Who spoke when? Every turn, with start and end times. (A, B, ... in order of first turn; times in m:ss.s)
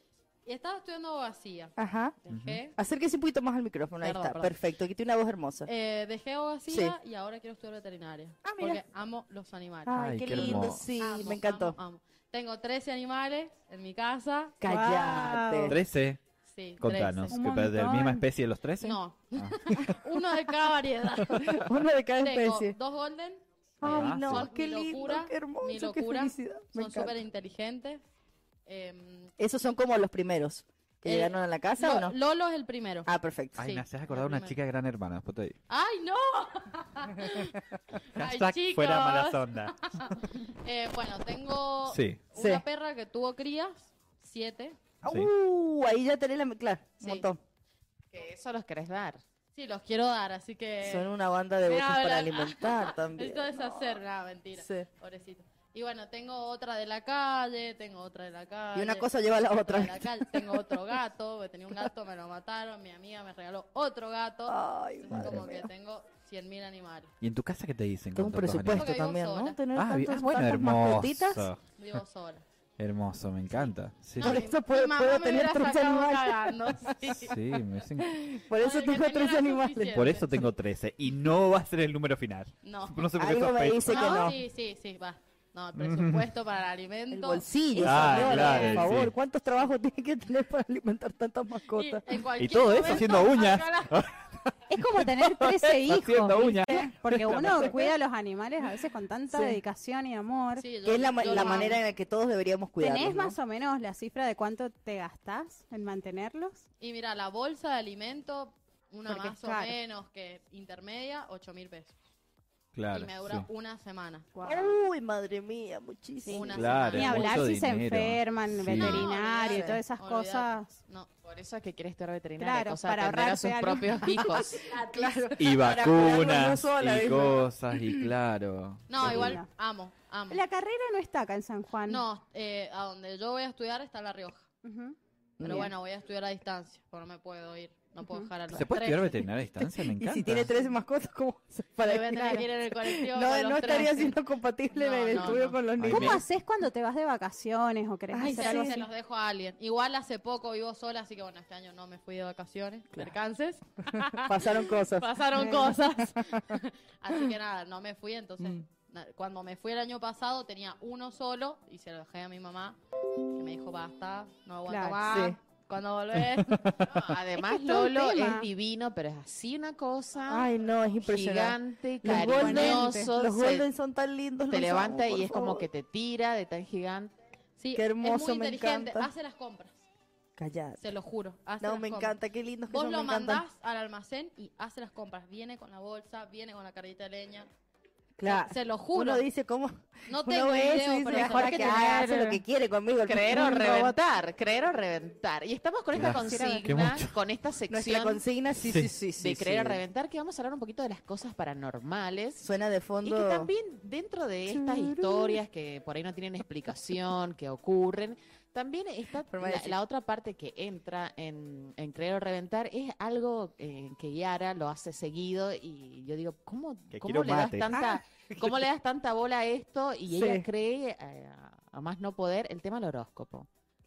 0:00.4-0:01.7 A
0:01.8-0:02.2 B
0:02.3-0:02.7 A
0:02.3-0:02.6 C
0:02.7-0:05.7 B
0:04.0-0:04.5 A
0:05.6-0:14.6 A
0:06.7-0:06.9 B
0:08.4-0:08.8 B
0:09.8-0:11.8 B
0:09.9-0:10.9 C
0:14.6-0:15.8 B
0:14.7-0:15.8 D
0:15.7-0:16.2 C
0:16.4-0:17.4 A
0:16.8-0:20.0 C
0:17.3-0:18.2 D
0:18.8-0:28.0 A
0:21.4-0:22.8 B
0:23.8-0:24.5 C
0:23.8-0:27.2 B
0:28.6-0:29.3 A
0:29.4-0:32.2 B
0:31.0-0:34.6 A
0:33.0-0:33.6 B
0:33.6-0:35.6 C
0:35.7-0:37.6 A
0:38.1-0:44.8 A
0:38.2-0:39.7 C
0:41.9-0:42.3 C
0:42.3-0:42.6 B
0:45.0-0:47.4 B
0:47.0-0:47.3 A
0:48.1-0:49.2 E
0:49.5-0:51.1 A
0:50.8-0:54.0 B
0:51.6-1:07.1 A
0:54.6-0:54.9 B
0:58.7-1:00.7 B
1:04.5-1:05.7 B
1:05.1-1:05.4 C
1:07.2-1:09.0 C
1:08.1-1:11.5 B
1:08.6-1:09.6 A
1:09.7-1:11.6 C
1:11.6-1:12.4 A
1:12.8-1:14.4 C
1:14.2-1:17.4 A
1:14.2-1:17.2 B
1:17.2-1:18.2 C
1:18.0-1:20.1 B
1:18.5-1:20.3 A
1:19.9-1:24.4 C
1:22.6-1:23.1 A
1:23.1-1:24.4 B
1:23.8-1:28.9 A
1:25.8-1:26.2 C
1:27.1-1:32.1 B
1:27.8-1:29.1 C
1:31.7-1:34.0 A
1:32.4-1:37.8 C
1:34.7-1:40.6 D
1:37.2-1:37.8 B
1:39.3-1:39.6 B
1:40.6-1:41.8 A
1:40.8-1:43.4 B
1:41.3-1:41.7 D
1:42.8-1:46.6 D
1:46.8-1:51.9 A
1:49.1-1:49.8 D
1:52.7-1:53.5 C
1:52.9-1:54.4 A
1:54.4-1:54.6 D
1:54.4-1:57.0 B
1:56.2-2:00.7 D
1:56.3-1:57.4 A
1:56.5-1:59.1 C
1:58.8-2:01.1 A
1:59.0-1:59.8 B
2:01.2-2:04.7 E
2:02.4-2:04.4 D
2:04.7-2:07.4 B
2:04.9-2:05.2 A
2:05.4-2:09.4 C
2:08.9-2:10.4 A
2:09.0-2:09.5 D
2:10.3-2:12.0 D
2:11.9-2:14.5 A
2:14.6-2:15.0 D
2:15.4-2:15.7 B
2:15.4-2:19.3 A
2:18.0-2:18.3 D
2:18.5-2:20.5 C
2:19.6-2:26.2 B
2:21.8-2:24.2 A
2:24.7-2:25.6 A
2:25.8-2:26.2 C
2:25.9-2:28.8 D
2:28.1-2:28.8 B
2:28.2-2:42.8 A
2:34.1-2:35.7 B
2:35.4-2:35.7 D
2:43.4-2:46.7 A
2:44.7-2:45.3 D
2:45.0-2:45.4 B
2:47.0-2:50.5 E
2:47.4-2:48.5 D
2:50.3-2:55.6 B
2:51.0-2:53.7 E
2:52.1-2:53.1 D
2:54.5-2:57.1 E
2:57.6-2:59.8 A
2:57.7-2:59.1 B
3:00.4-3:00.8 B
3:00.8-3:02.2 A
3:01.6-3:03.4 B
3:02.7-3:07.5 A
3:08.2-3:13.9 B
3:08.2-3:09.2 A
3:10.1-3:11.8 A
3:11.2-3:12.4 E
3:13.0-3:18.2 E
3:15.9-3:17.1 C
3:16.2-3:16.6 D
3:17.7-3:19.8 B
3:18.6-3:18.9 C
3:19.2-3:22.4 E
3:22.4-3:23.5 B
3:23.0-3:43.5 E
3:24.5-3:25.4 B
3:29.3-3:29.8 B
3:36.9-3:37.7 C
3:37.7-3:38.4 B
3:40.1-3:40.4 B